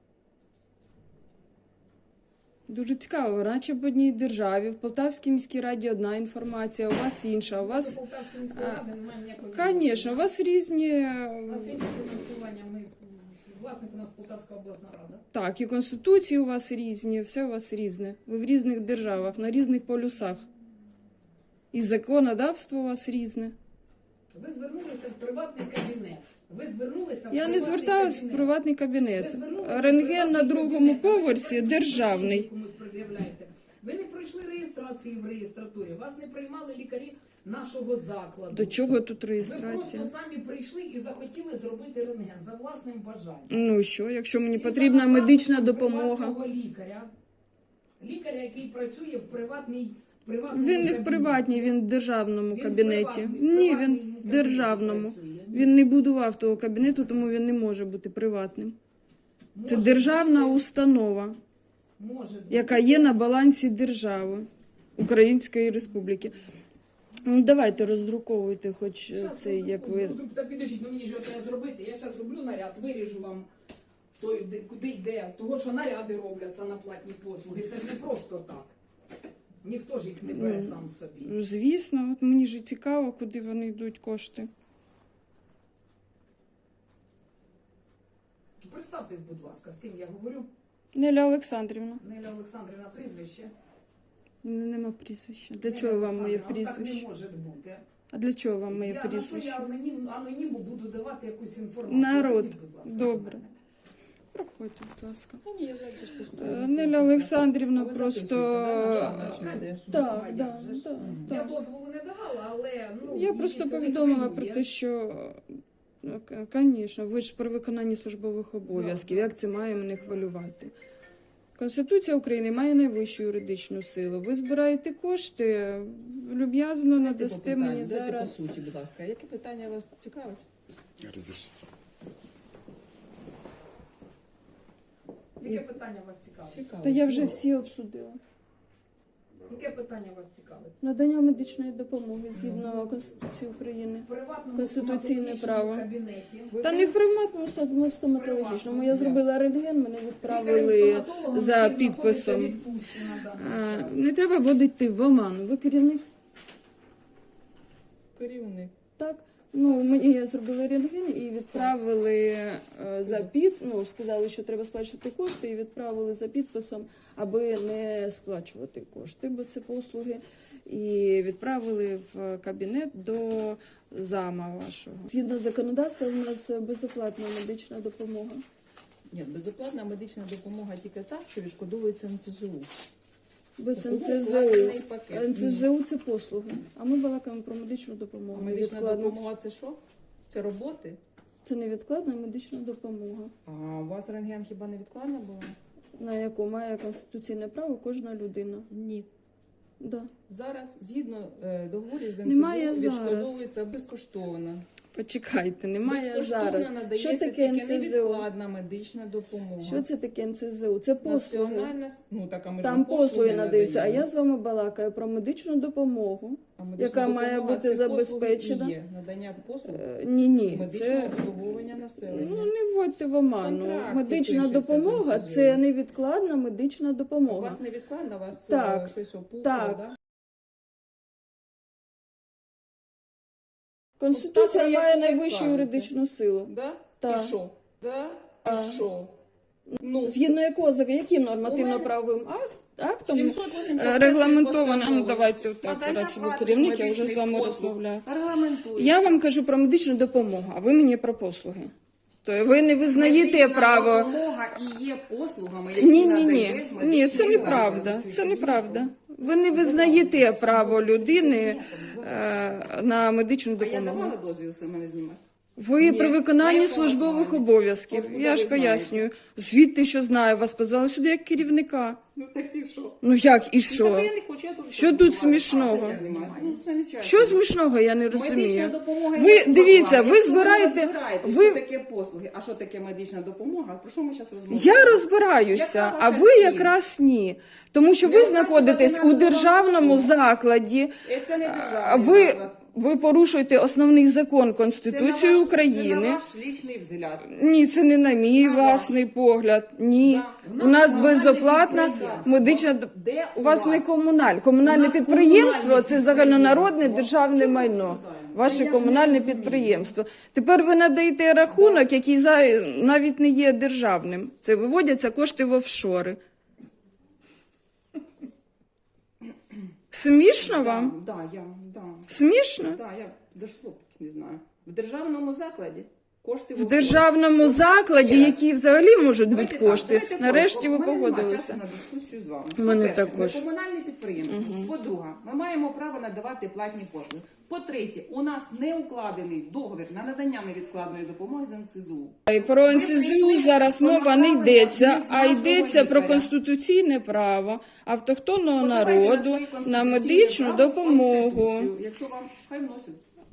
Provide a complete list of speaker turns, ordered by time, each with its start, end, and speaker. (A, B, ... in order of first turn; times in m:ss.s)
0:02.7-0:08.0 A
0:07.4-0:10.3 B
0:08.5-0:08.8 A
0:09.5-0:11.8 A
0:11.5-0:15.2 B
0:15.3-0:20.4 A
0:21.7-0:23.6 A
0:24.3-0:28.5 B
0:27.3-0:32.5 A
0:29.2-0:43.7 B
0:38.5-0:40.1 A
0:43.5-0:46.4 A
0:44.5-0:47.1 B
0:48.0-0:51.7 B
0:50.5-0:58.8 A
0:52.5-0:55.8 B
0:59.6-1:00.6 B
0:59.7-1:01.4 A
1:02.0-1:03.2 B
1:02.5-1:06.4 A
1:07.2-1:10.2 A
1:09.1-1:13.5 B
1:14.2-1:18.7 B
1:19.6-1:21.3 B
1:20.2-1:24.5 A
1:28.6-1:30.5 B
1:30.9-1:32.0 A
1:32.0-1:33.5 B
1:34.4-1:37.1 A
1:35.6-1:37.8 B
1:38.1-1:39.7 A
1:38.7-1:43.5 B
1:41.9-1:43.4 A
1:44.3-1:45.4 A
1:45.4-1:50.0 C
1:46.3-1:51.5 A
1:48.8-1:54.7 B
1:51.0-1:51.3 C
1:53.0-1:55.4 A
1:56.0-2:00.7 A
1:58.7-1:59.3 B
2:01.6-2:08.4 A
2:07.0-2:10.4 C
2:11.0-2:11.4 C
2:15.4-2:16.6 B
2:16.5-2:17.4 C
2:16.8-2:18.2 A
2:19.5-2:20.7 B
2:20.8-2:25.9 A
2:22.3-2:22.8 C
2:24.0-2:26.6 B
2:26.5-2:26.9 C
2:26.6-2:32.6 A
2:28.2-2:29.1 B
2:29.0-2:29.2 C
2:30.2-2:34.0 B
2:33.4-2:36.0 A
2:38.2-2:38.7 C
2:39.0-2:58.4 A
2:43.0-2:43.3 C
2:59.1-3:02.7 C
3:03.6-3:09.2 A
3:03.7-3:05.7 C
3:08.3-3:11.0 C
3:11.4-3:13.3 A
3:13.4-3:15.6 C
3:16.0-3:18.7 A
3:18.7-3:19.1 C
3:19.8-3:20.1 A
3:20.3-3:24.6 C
3:22.2-3:23.4 A
3:24.9-3:28.3 A
3:25.8-3:29.9 C
3:29.6-3:31.7 A
3:31.0-3:34.1 C
3:32.6-3:38.8 A
3:36.6-3:39.9 C
3:39.7-3:41.2 A
3:40.4-3:42.5 C
3:42.0-3:47.6 A
3:43.4-3:45.6 C
3:47.3-3:50.0 C
3:48.4-3:49.9 A
3:54.0-3:57.4 A
3:54.1-3:55.9 C
3:56.5-3:59.1 C
3:58.4-3:58.8 A
3:59.7-4:08.0 A
3:59.8-4:00.2 C
4:01.4-4:01.9 C
4:03.1-4:09.2 C
4:08.7-4:11.7 A
4:12.2-4:14.1 A
4:12.9-4:18.9 C
4:15.7-4:24.2 A
4:19.5-4:23.0 C
4:23.6-4:25.2 C
4:25.6-4:32.0 A
4:25.8-4:29.1 C
4:32.2-4:33.0 C
4:33.0-4:34.1 A
4:33.6-4:37.4 C
4:34.7-4:41.6 A
4:36.0-4:36.4 B
4:38.1-4:46.8 C
4:44.5-4:56.2 A
4:48.0-4:50.2 C
4:51.0-4:52.6 C
4:54.8-4:57.3 C
4:57.2-5:16.2 A
4:58.3-4:59.0 C
5:00.0-5:03.9 C
5:00.4-5:02.6 B
5:04.6-5:09.9 C
5:11.5-5:11.9 C
5:19.9-5:21.0 A
5:20.4-5:28.4 C
5:22.1-5:22.8 A
5:26.6-5:31.6 A
5:29.3-5:46.3 C
5:32.6-5:33.5 A
5:34.2-5:34.7 A
5:42.3-5:51.7 A
5:48.5-5:53.0 C